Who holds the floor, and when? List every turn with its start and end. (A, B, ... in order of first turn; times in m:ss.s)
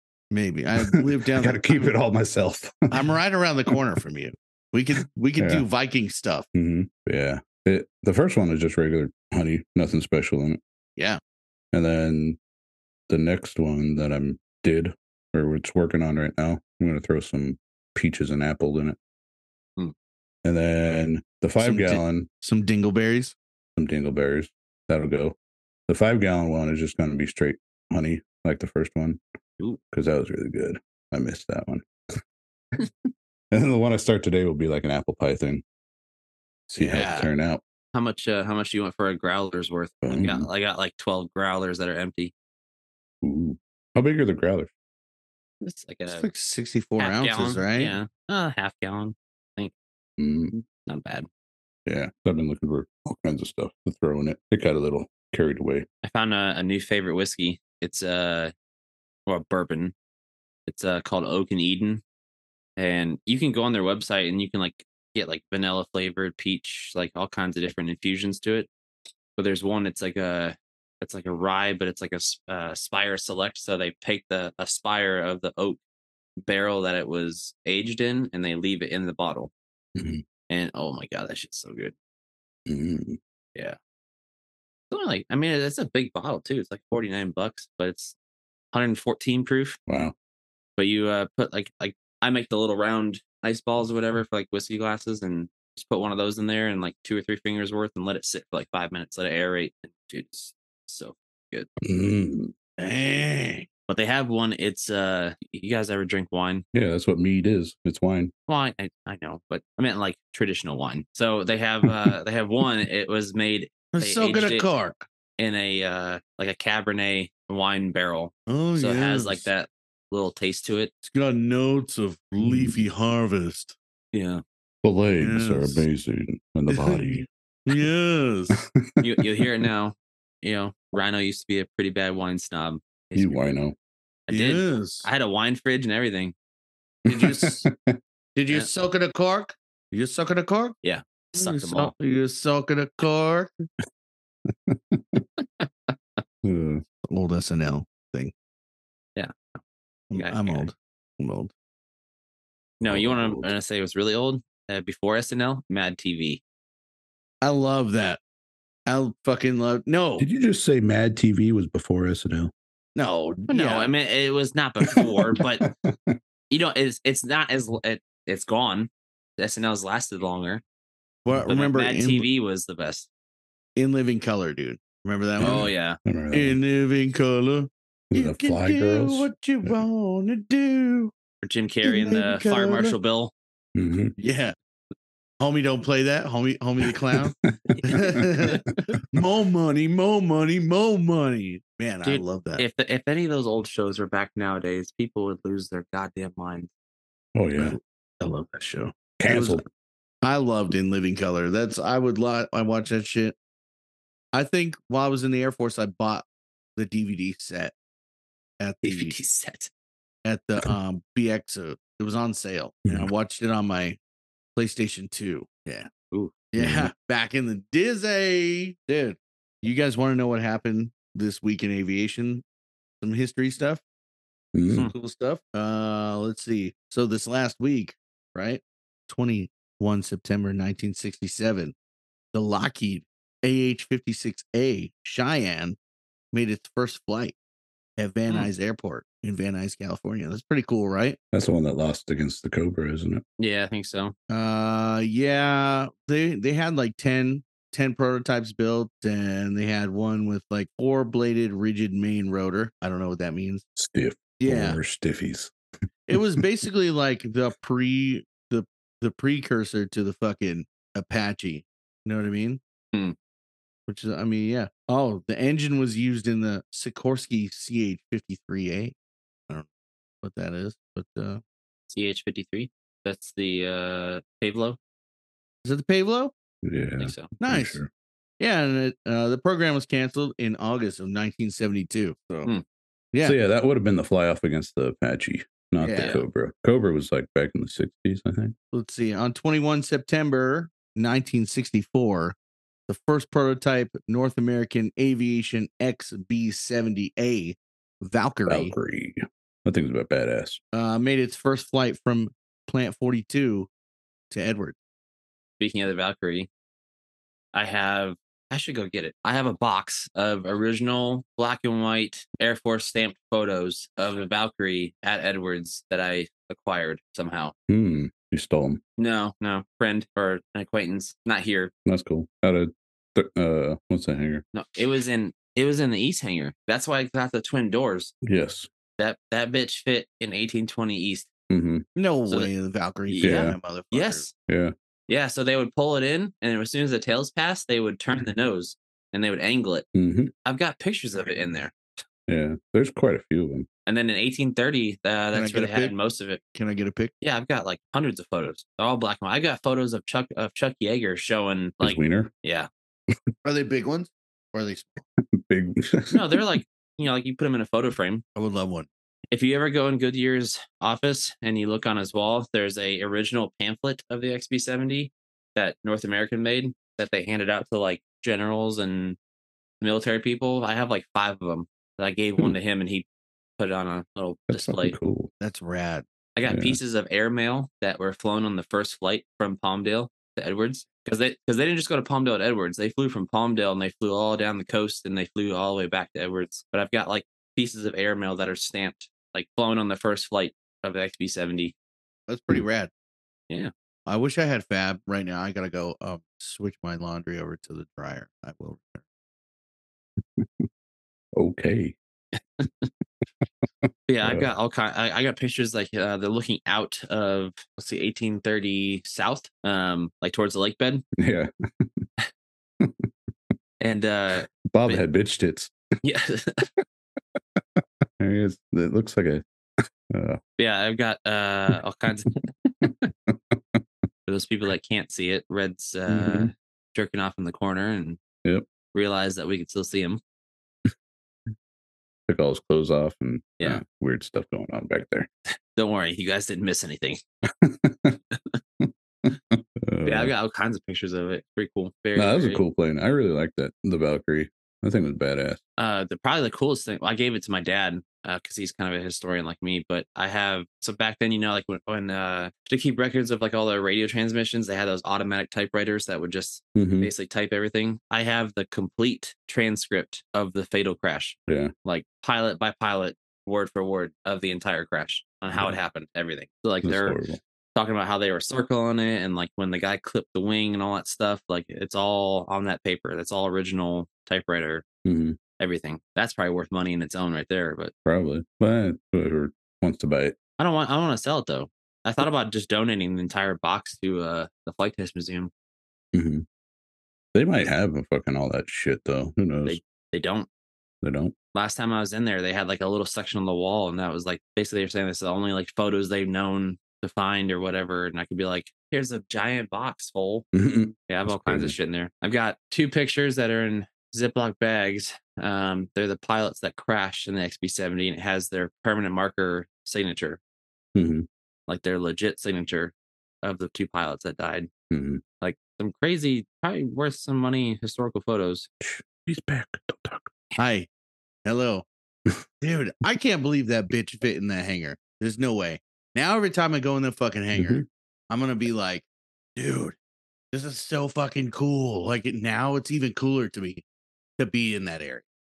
0:00.3-0:01.9 A
0:00.8-0:03.0 B
0:02.9-0:06.5 A
0:05.4-0:05.6 B
0:06.5-0:10.6 B
0:11.7-0:12.4 B
0:13.1-0:19.0 B
0:20.4-0:22.3 B
0:21.6-0:23.4 A
0:23.8-0:25.4 B
0:25.9-0:29.2 B
0:29.9-0:32.2 B
0:33.5-0:35.6 B
0:36.7-0:37.6 B
0:36.8-0:37.3 A
0:37.9-0:42.3 C
0:40.0-0:40.5 B
0:43.2-0:44.7 B
0:45.6-0:46.3 C
0:46.1-0:48.0 A
0:47.0-0:49.7 C
0:50.2-0:50.5 B
0:50.5-0:51.3 C
0:51.8-0:55.8 B
0:56.0-0:58.5 C
0:59.2-0:59.9 C
1:00.7-1:02.0 C
1:02.8-1:08.7 C
1:09.4-1:15.8 C
1:16.4-1:19.5 C
1:20.0-1:20.2 B
1:20.5-1:21.9 C
1:22.7-1:23.2 B
1:24.9-1:28.2 C
1:28.7-1:29.8 C
1:29.9-1:30.1 B
1:30.8-1:41.7 C
1:41.8-1:42.5 B
1:42.8-1:43.7 A
1:43.9-1:46.6 C
1:46.7-1:48.3 B
1:48.5-1:54.7 C
1:53.9-1:55.0 A
1:55.4-2:00.9 C
1:58.5-1:59.4 A
2:01.0-2:03.8 A
2:02.4-2:02.8 B
2:04.1-2:04.4 C
2:04.8-2:07.2 B
2:05.2-2:05.8 A
2:06.7-2:08.6 A
2:08.5-2:09.5 B
2:09.0-2:13.4 C
2:13.2-2:13.7 B
2:14.3-2:16.3 C
2:14.3-2:15.1 A
2:17.0-2:18.0 B
2:17.1-2:17.7 A
2:18.4-2:20.8 A
2:20.8-2:21.9 C
2:21.4-2:23.5 A
2:24.5-2:25.2 B
2:25.4-2:25.9 C
2:26.4-2:26.8 B
2:27.1-2:28.3 A
2:29.2-2:29.6 C
2:30.1-2:31.5 A
2:30.1-2:30.7 C
2:32.8-2:36.4 C
2:32.8-2:33.5 B
2:37.4-2:38.2 A
2:38.9-2:40.3 A
2:40.2-2:42.5 B
2:43.0-2:43.9 A
2:43.5-2:45.7 C
2:44.8-2:46.2 B
2:46.5-2:50.6 C
2:51.2-2:52.3 A
2:51.5-2:53.1 C
2:53.8-2:55.7 A
2:55.4-2:56.6 B
2:55.4-2:56.0 C
2:56.3-3:01.1 A
2:58.1-2:59.8 B
3:01.4-3:03.3 C
3:01.8-3:02.9 A
3:03.7-3:04.1 B
3:04.2-3:04.5 A
3:05.4-3:12.6 A
3:07.1-3:08.2 B
3:07.7-3:08.5 C
3:12.0-3:16.7 C
3:17.3-3:17.8 B
3:17.6-3:19.6 A
3:19.2-3:19.6 B
3:20.2-3:23.4 A
3:24.3-3:26.2 A
3:26.8-3:27.7 A
3:28.6-3:29.1 A
3:28.8-3:29.7 C
3:30.2-3:34.0 A
3:32.8-3:33.1 B
3:34.6-3:35.9 A
3:36.5-3:42.4 A
3:36.6-3:36.9 B
3:43.0-3:43.8 A
3:44.5-3:44.9 B
3:44.8-3:51.7 A
3:52.3-3:55.8 A
3:56.3-3:57.4 A
3:58.0-4:01.2 A
4:01.3-4:03.2 B
4:03.4-4:04.1 C
4:04.3-4:13.6 A
4:13.8-4:15.5 B
4:14.4-4:14.8 A
4:16.1-4:22.6 A
4:16.1-4:16.4 B
4:23.9-4:28.9 A
4:30.2-4:31.4 A
4:31.9-4:34.8 C
4:35.6-4:36.3 A
4:36.6-4:37.9 B
4:37.0-4:37.3 C
4:37.4-4:37.8 A
4:38.4-4:42.5 A
4:43.1-4:43.4 A
4:43.2-4:48.5 B
4:45.8-4:46.2 A
4:46.0-4:46.2 C
4:48.7-4:52.4 A
4:52.9-4:58.7 A
4:58.5-5:00.6 B
5:00.7-5:03.7 A
5:04.3-5:04.8 A
5:05.6-5:06.5 C
5:07.5-5:17.5 C
5:17.7-5:18.8 B
5:19.0-5:21.7 C
5:21.8-5:24.4 B
5:24.5-5:28.1 C
5:28.2-5:28.7 B
5:29.0-5:31.3 C
5:31.5-5:31.8 B
5:32.0-5:34.3 A
5:33.1-5:34.3 C
5:33.2-5:33.6 B
5:34.5-5:34.7 B
5:35.1-5:39.9 C
5:39.9-5:40.3 B
5:40.4-5:42.0 C
5:42.3-5:43.7 B
5:43.9-5:46.4 C
5:45.3-5:45.9 A
5:46.5-5:47.1 A
5:47.2-5:52.7 C
5:51.8-5:52.3 B
5:53.4-5:55.0 A
5:55.2-5:56.5 B
5:56.1-5:58.2 C
5:58.4-5:58.9 A
5:59.3-6:09.2 C
6:09.8-6:13.0 C
6:13.6-6:14.9 C
6:14.5-6:15.3 B
6:15.4-6:16.0 A
6:16.4-6:31.7 C
6:16.5-6:16.8 B
6:32.3-6:32.9 A
6:34.1-6:39.0 A
6:40.4-6:40.7 B
6:41.3-6:42.0 B
6:42.3-6:42.9 C
6:43.8-6:44.5 B
6:44.1-6:51.0 C
6:51.2-6:52.1 B
6:52.8-6:53.1 B
6:53.8-6:55.0 C
6:54.6-6:55.7 B
6:56.0-6:56.7 C
6:57.4-6:59.4 B
7:00.1-7:00.4 B
7:00.6-7:03.1 C
7:02.8-7:03.8 B
7:04.3-7:08.2 C
7:06.1-7:06.5 B
7:08.9-7:10.2 C
7:12.3-7:15.3 B
7:15.7-7:17.2 C
7:17.5-7:18.2 B
7:18.8-7:20.3 B
7:20.0-7:22.6 C
7:22.1-7:25.6 B
7:25.8-7:47.2 C
7:36.8-7:37.1 B
7:45.5-7:45.8 B
7:46.8-7:47.4 B
7:47.7-7:54.8 C
7:55.0-7:55.4 B
7:55.6-7:57.9 C
7:58.0-8:00.4 B
8:00.6-8:05.5 C
8:06.1-8:06.4 B
8:07.3-8:09.8 B
8:09.6-8:10.5 C
8:11.0-8:11.3 B
8:11.5-8:20.4 C
8:20.5-8:21.8 B
8:21.1-8:30.4 C
8:30.9-8:31.3 B
8:31.7-8:34.7 C
8:34.9-8:35.2 B
8:35.4-8:38.7 C
8:38.8-8:40.3 B
8:40.6-8:40.9 A
8:41.4-8:41.8 A
8:42.6-8:50.0 A
8:47.5-8:47.8 B
8:50.5-8:53.8 A
8:54.4-8:55.2 A